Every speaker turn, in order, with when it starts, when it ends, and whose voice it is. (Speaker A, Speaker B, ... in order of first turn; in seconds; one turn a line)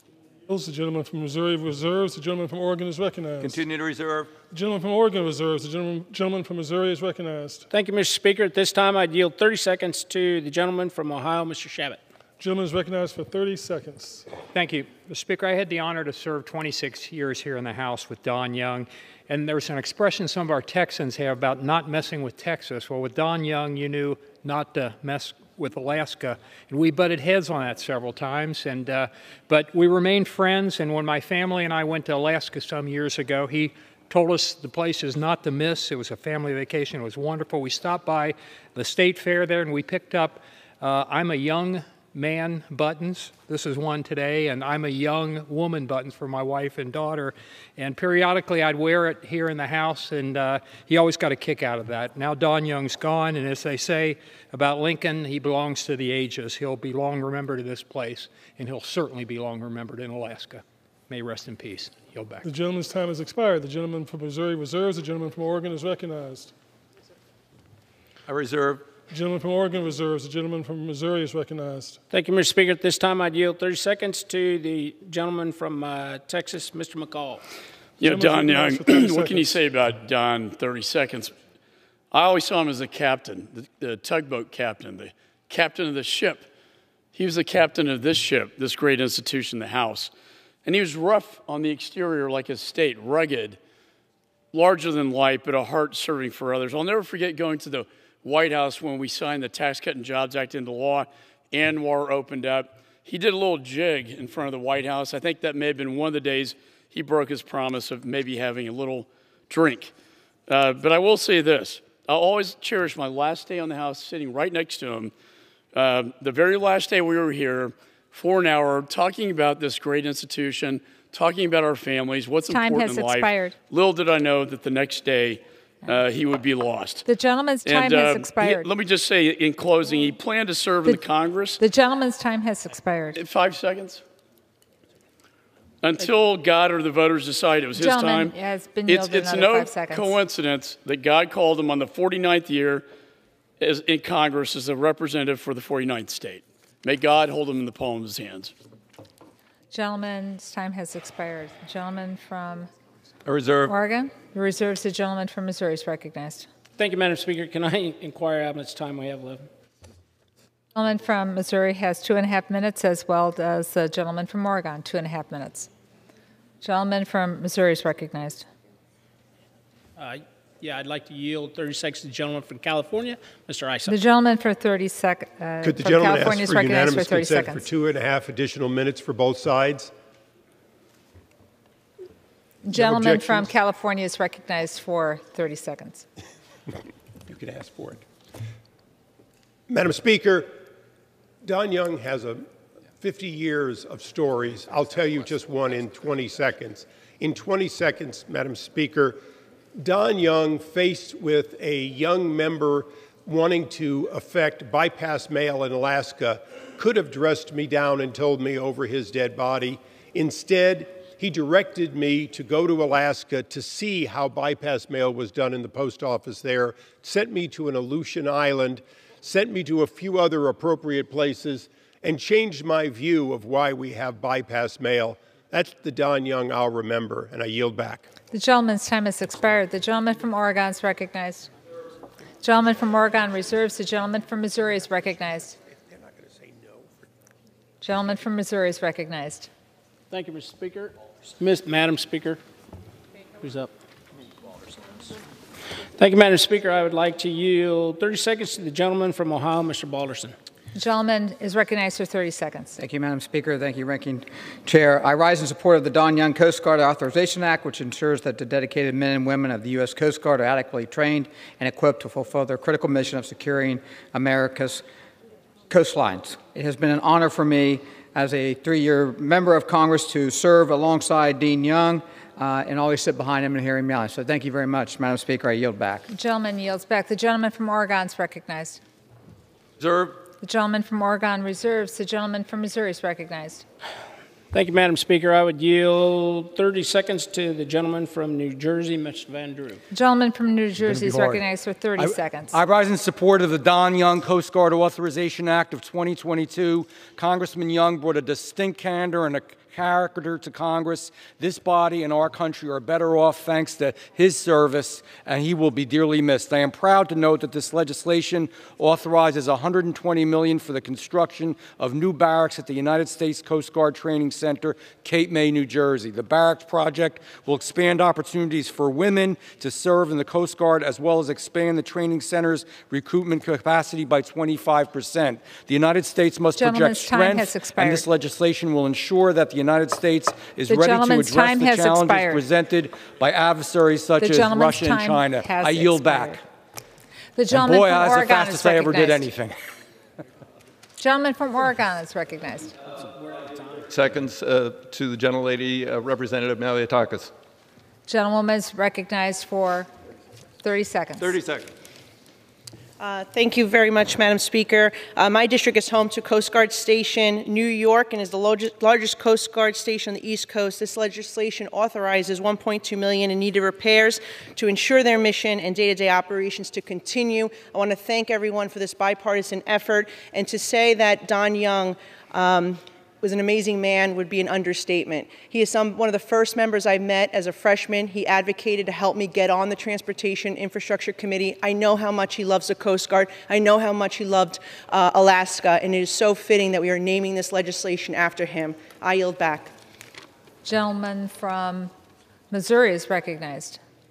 Speaker A: 0.5-3.6
Speaker B: 3.4-4.3
Speaker A: 4.5-7.7
Speaker C: 7.7-12.0
Speaker A: 12.4-14.3
Speaker D: 14.5-62.5
Speaker A: 62.4-66.5
Speaker B: 68.3-68.9
Speaker A: 69.1-72.0
Speaker C: 72.1-77.4
Speaker A: 78.0-79.6
Speaker E: 78.0-81.3
Speaker E: 82.1-86.5
Speaker E: 87.1-90.1
Speaker E: 90.7-93.6
Speaker E: 94.5-109.9
Speaker E: 110.5-115.1
Speaker E: 115.7-127.0
Speaker F: 122.5-123.6
Speaker F: 127.0-128.7
Speaker E: 127.7-131.6
Speaker F: 131.6-133.2
Speaker E: 133.2-134.0
Speaker E: 135.8-138.3
Speaker F: 137.7-140.2
Speaker E: 138.9-142.8
Speaker E: 143.6-148.5
Speaker F: 149.7-152.7
Speaker B: 153.3-153.8
Speaker F: 153.7-156.5
Speaker C: 156.8-159.5
Speaker F: 160.8-165.7
Speaker F: 166.6-168.5
Speaker C: 170.0-174.0
Speaker F: 173.9-177.7
Speaker G: 175.6-179.9
Speaker F: 182.7-186.1
Speaker G: 182.7-183.5
Speaker G: 187.3-188.0
Speaker G: 189.7-190.6
Speaker G: 191.4-192.5
Speaker G: 193.0-199.2
Speaker G: 199.8-228.1
Speaker F: 228.3-231.5
Speaker F: 232.4-235.6
Speaker F: 237.8-239.5
Speaker C: 240.1-242.4
Speaker C: 243.4-243.7
Speaker C: 246.0-250.3
Speaker F: 250.8-252.8
Speaker H: 252.8-264.8
Speaker H: 265.7-276.1
Speaker F: 276.1-278.8
Speaker B: 279.8-280.2
Speaker F: 280.4-283.6
Speaker C: 284.5-289.8
Speaker F: 289.9-292.6
Speaker I: 290.8-291.4
Speaker I: 292.0-336.4
Speaker F: 326.6-328.1
Speaker F: 330.7-332.5
Speaker F: 334.2-336.4
Speaker F: 337.4-339.3
Speaker I: 337.5-339.6
Speaker F: 341.0-342.8
Speaker B: 343.8-347.3
Speaker F: 348.1-349.9
Speaker F: 350.6-351.4
Speaker B: 351.2-351.7
Speaker J: 353.0-389.7
Speaker F: 390.6-391.9
Speaker F: 392.5-393.8